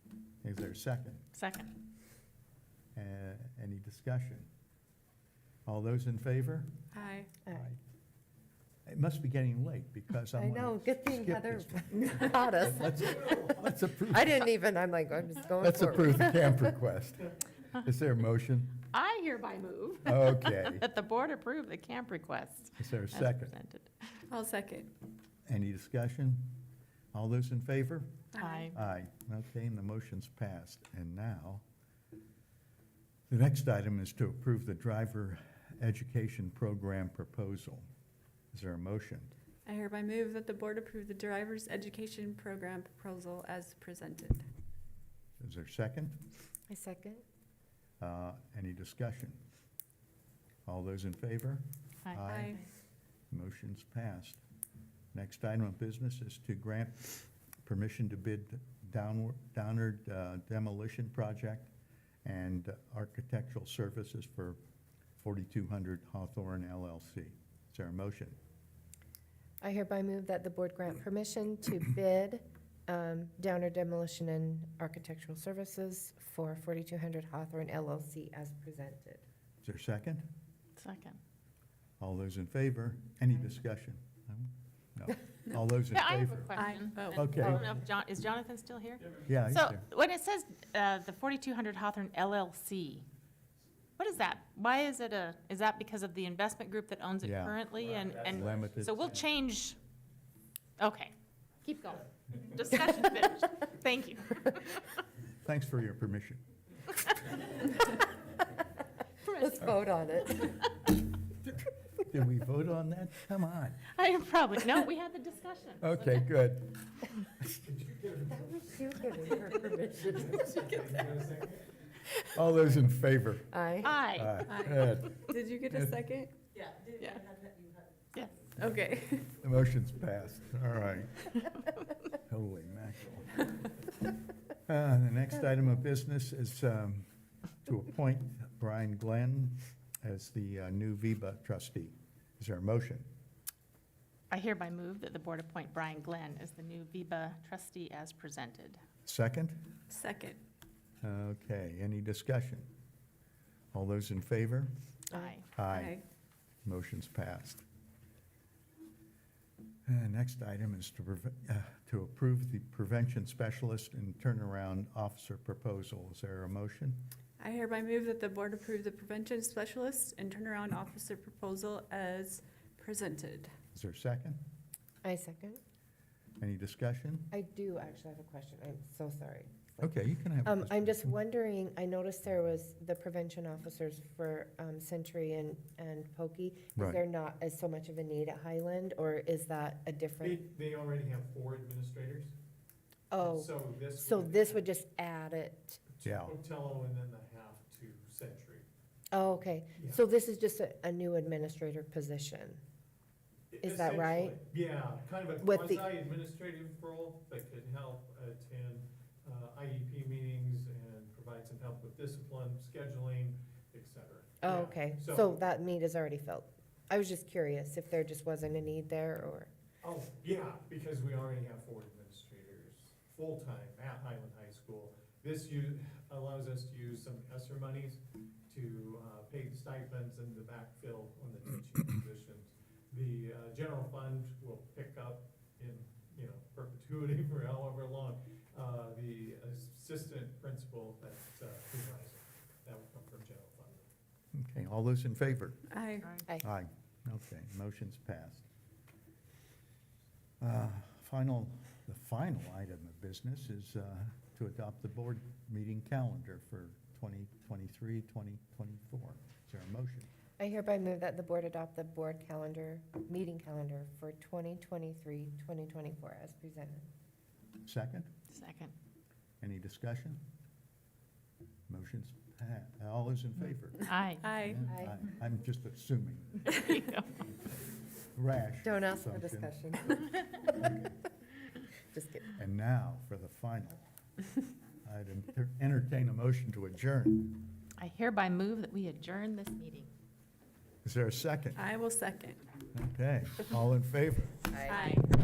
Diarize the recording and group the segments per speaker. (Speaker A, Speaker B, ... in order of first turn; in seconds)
Speaker A: 0.4-1.2, 2.9-4.5, 5.7-6.7, 7.5-7.8, 8.8-14.4, 15.6-18.8, 20.0-20.8, 22.8-23.5, 25.5-26.6, 27.1-28.1, 28.7-31.6, 33.3-37.9, 38.5-39.3, 45.4-46.2, 48.0-49.4, 50.6-52.6, 53.3-54.4, 55.1-61.7, 62.2-64.6, 65.2-68.4, 79.6-80.3, 82.0-86.6, 87.1-87.6, 89.2-89.8, 97.2-97.6, 98.2-99.1, 105.4-106.4, 112.0-113.8, 115.8-117.6, 122.3-123.5, 124.1-126.0, 129.4-131.3, 132.1-133.4, 134.7-137.1, 137.6-143.1, 149.0-149.7, 151.0-152.7, 153.7-154.7, 155.5-156.0, 156.6-157.6, 159.8-167.0, 173.7-174.4, 176.4-177.3, 179.8-181.2, 196.0-196.3, 244.3-245.7, 246.4-248.4, 250.4-260.1, 267.6-268.1, 269.4-270.2, 271.7-276.5, 278.1-279.5, 280.6-280.9, 282.3-283.8, 284.8-287.5, 290.8-291.6, 292.7-294.5
Speaker B: 1.3-1.7, 18.9-24.1, 28.4-28.7, 80.8-81.2, 85.9-93.0, 94.0-99.8, 100.8-105.0, 109.4-109.7, 113.9-116.2, 123.8-124.4, 127.0-127.3, 144.3-148.8, 155.1-155.5, 268.3-268.7, 273.9-274.3, 276.5-277.2, 287.8-289.9
Speaker C: 6.9-7.3, 24.3-24.9, 28.3-28.7, 39.6-44.5, 52.2-52.6, 86.5-87.5, 124.4-126.3, 128.5-129.3, 149.9-150.4, 155.7-156.0, 167.4-173.5, 245.7-246.1, 274.2-274.7, 291.6-292.4, 294.6-295.1
Speaker D: 10.3-16.7, 46.7-47.2, 69.6-79.2, 109.2-110.7, 118.3-120.7, 123.5-124.0, 175.0-175.6, 177.3-190.4, 193.1-195.8, 199.1-202.6, 203.6-204.4, 205.4-205.9, 214.4-219.5, 260.4-266.9, 278.6-280.1, 281.9-282.3, 294.5-295.0
Speaker E: 97.8-98.6, 117.6-118.6, 120.0-121.8, 190.2-192.3, 193.2-194.6, 195.9-198.6, 199.7-200.0, 203.5-215.4, 219.8-243.9